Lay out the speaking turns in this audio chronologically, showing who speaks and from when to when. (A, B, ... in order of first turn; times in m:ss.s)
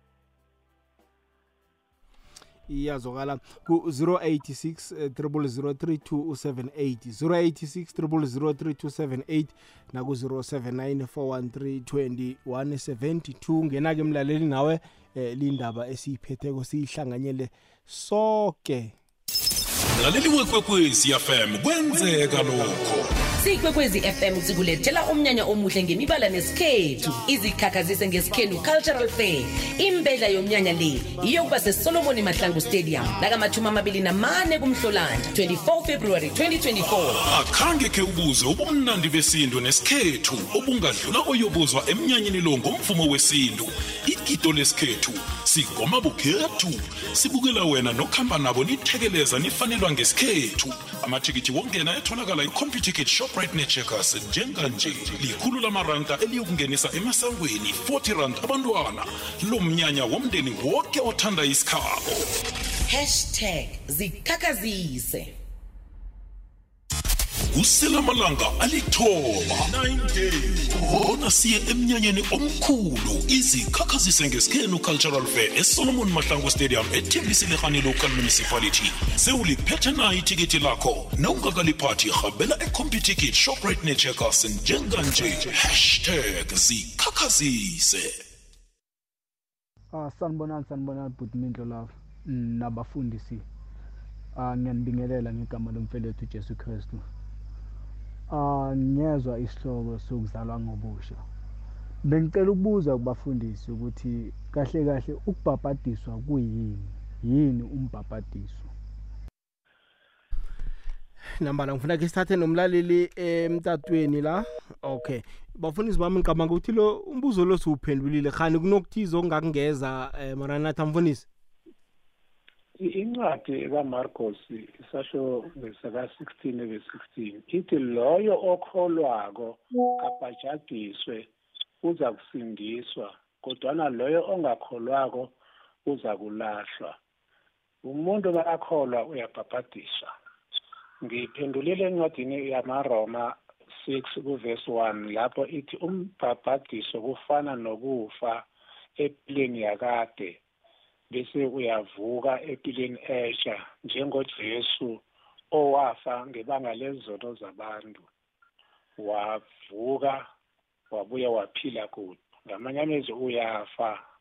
0:02.7-0:19.0 A
0:19.9-0:23.1 B
0:23.4-0:37.2 C
0:37.2-1:02.2 B
1:02.9-1:05.4 C
1:07.5-1:28.2 B
1:29.9-1:33.4 D
1:34.4-1:37.0 D
1:38.3-1:41.2 D
1:42.1-1:48.7 D
1:51.4-2:01.3 A
2:02.8-2:11.3 E
2:11.8-2:15.3 E
2:15.9-2:17.0 E
2:17.8-2:20.1 E
2:21.0-2:28.4 E
2:29.0-2:30.4 E
2:31.1-2:38.1 E
2:39.0-2:40.3 E
2:40.9-2:44.0 E